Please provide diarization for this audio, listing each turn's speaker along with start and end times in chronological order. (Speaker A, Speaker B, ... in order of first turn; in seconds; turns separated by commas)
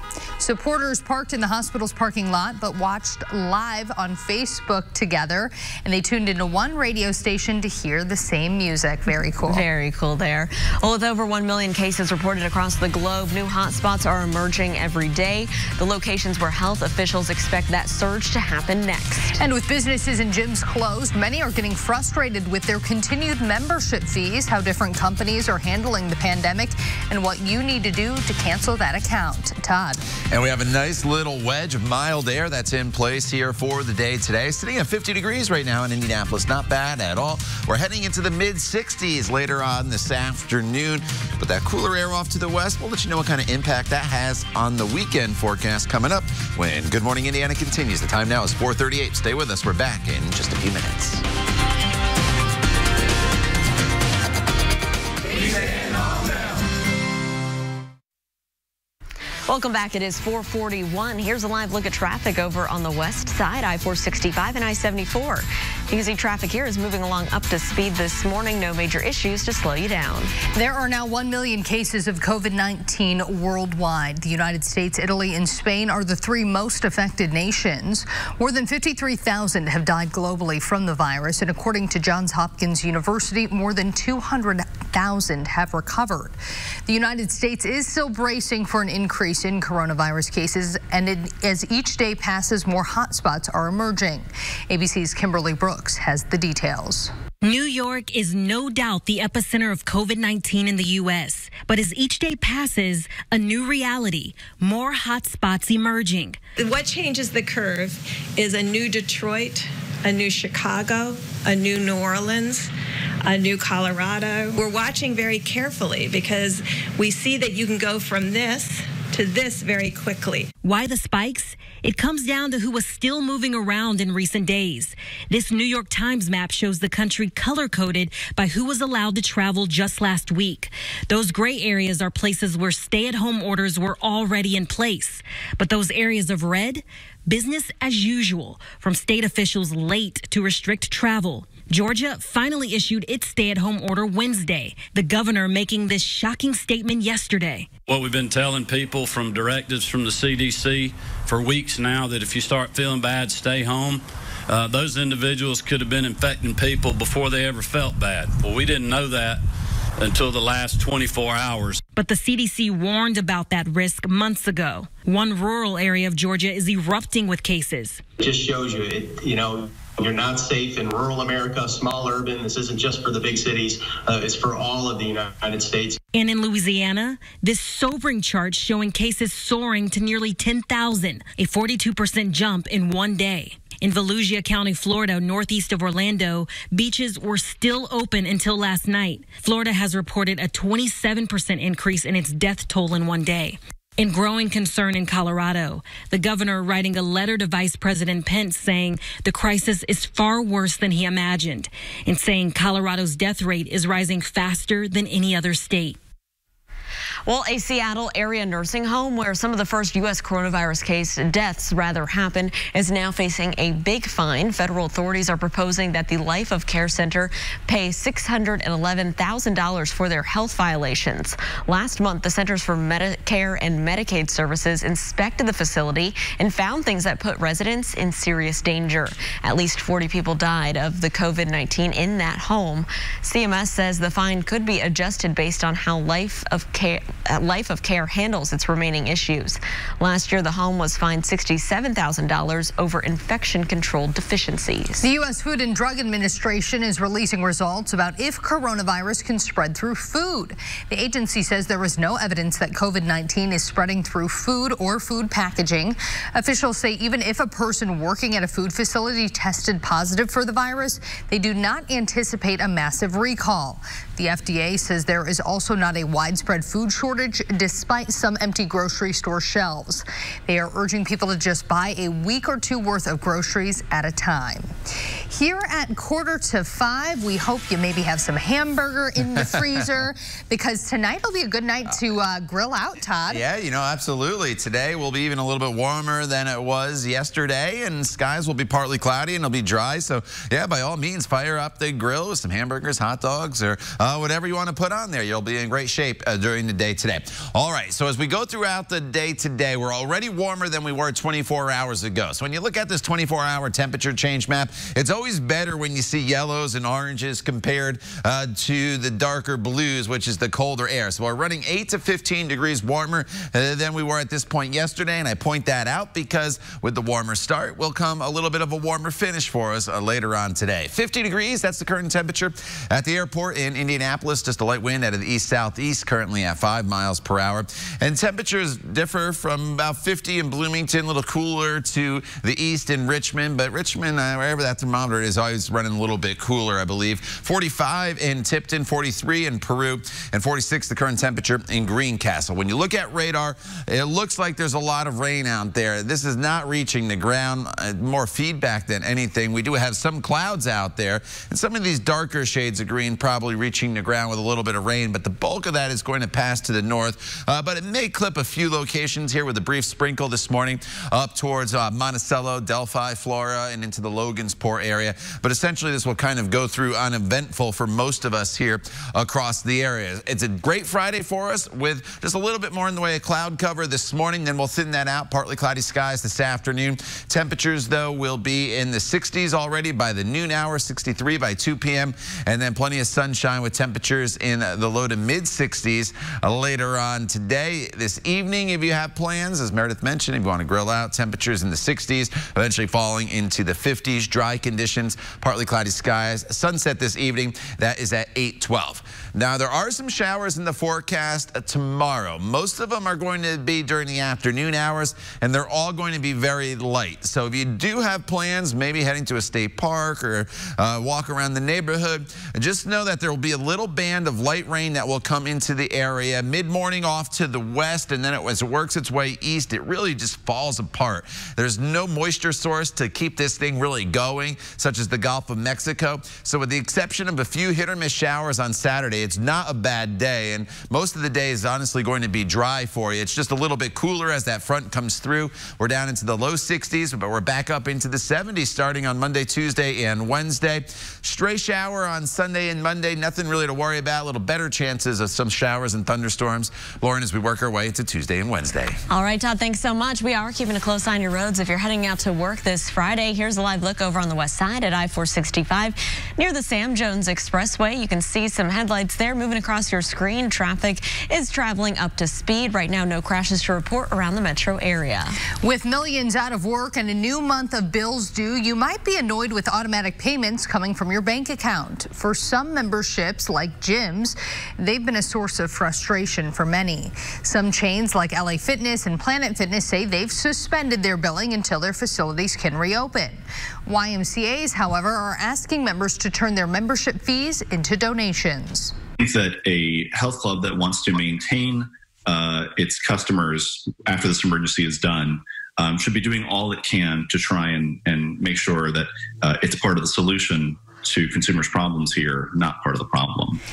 Speaker A: 0.4-9.7, Speaker B: 9.4-19.4, Speaker A: 19.4-30.0, Speaker C: 30.3-51.2, Speaker B: 59.5-70.3, Speaker A: 70.5-97.1, Speaker D: 97.4-106.4, Speaker E: 106.6-112.7, Speaker E: 113.2-120.5, Speaker D: 120.6-147.7, Speaker F: 147.9-159.4, Speaker F: 160.0-161.8, Speaker D: 161.9-168.0, Speaker G: 168.2-176.0, Speaker D: 176.1-206.0, Speaker B: 207.3-245.1, Speaker A: 245.0-274.7, Speaker A: 275.3-283.4, Speaker C: 283.3-449.0, Speaker B: 449.1-465.4, Speaker A: 465.6-488.9, Speaker H: 489.2-503.6